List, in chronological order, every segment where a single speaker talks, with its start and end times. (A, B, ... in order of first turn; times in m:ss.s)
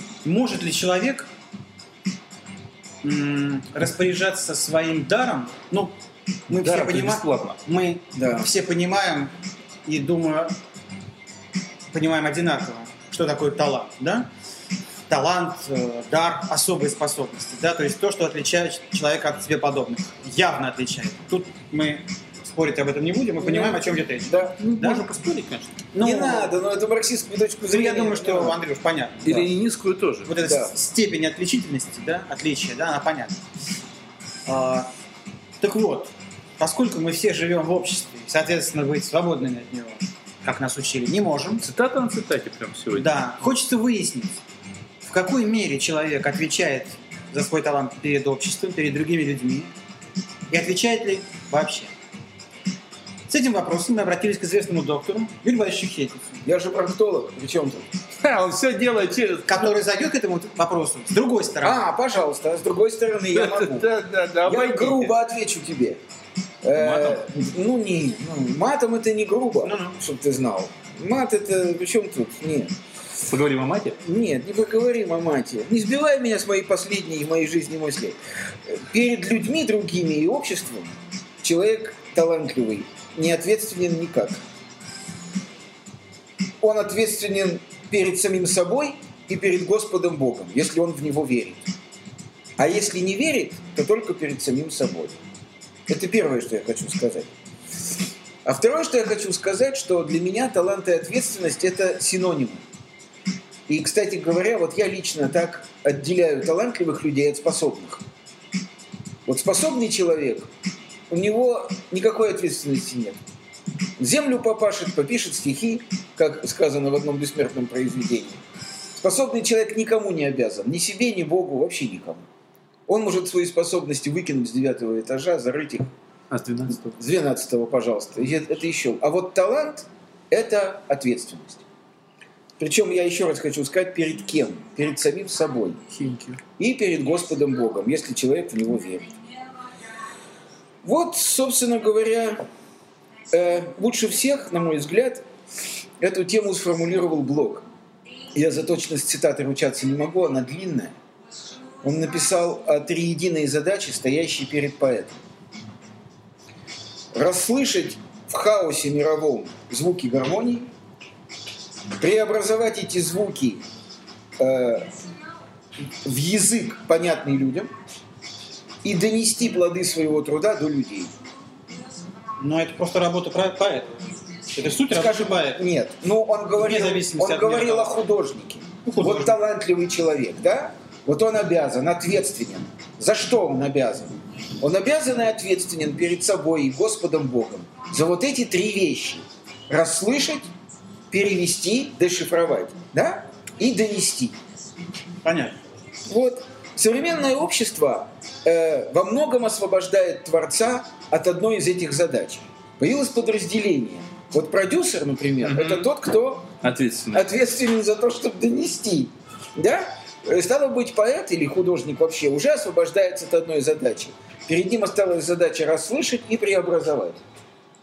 0:00.2-0:01.3 A
0:03.0-0:05.9 A
0:06.5-0:09.3 A
0:06.5-0:07.6 B
0:08.2-0:08.5 C
0:09.9-0:10.6 A
0:11.9-0:14.3 A
0:15.1-0:25.1 A
0:23.4-0:24.6 C
0:24.6-0:25.7 B
0:25.9-0:26.6 A
0:26.0-0:28.6 C
0:27.7-0:29.3 A
0:29.2-0:29.5 C
0:29.2-0:30.3 B
0:30.3-0:33.4 A
0:30.4-0:30.7 C
0:34.5-0:34.9 A
0:35.6-0:41.6 A
0:41.6-0:43.1 B
0:43.0-0:44.4 A
0:45.0-0:49.7 A
0:50.5-0:51.9 A
0:53.3-0:56.3 A
0:56.4-0:57.9 C
0:58.2-0:59.7 B
0:59.5-1:01.8 A
1:01.6-1:03.9 C
1:03.3-1:05.2 B
1:04.4-1:06.0 C
1:06.6-1:12.8 C
1:06.8-1:07.2 B
1:09.6-1:10.0 A
1:13.3-1:14.0 B
1:14.0-1:24.4 C
1:26.6-1:31.7 C
1:32.6-1:35.2 C
1:35.9-1:37.3 C
1:38.4-1:42.6 C
1:43.7-1:48.0 C
1:49.3-1:50.5 C
1:51.1-1:53.2 C
1:54.0-1:58.4 C
1:59.0-2:02.2 C
2:02.9-2:05.9 C
2:06.3-2:06.9 B
2:07.0-2:11.6 C
2:12.6-2:15.8 C
2:15.9-2:16.4 B
2:16.6-2:19.1 C
2:20.8-2:22.4 C
2:23.3-2:25.3 C
2:26.0-2:27.7 C
2:28.3-2:30.9 C
2:31.8-2:35.2 C
2:37.1-2:40.7 C
2:42.0-2:43.6 C
2:44.4-2:44.9 C
2:46.0-2:47.7 C
2:48.8-2:51.1 C
2:52.4-2:55.6 A
2:54.9-3:10.5 C
2:56.6-2:58.0 A
2:58.8-2:59.4 A
3:11.1-3:14.4 C
3:15.2-3:15.6 A
3:16.1-3:26.5 C
3:25.4-3:25.9 B
3:26.6-3:27.3 B
3:27.1-3:37.2 C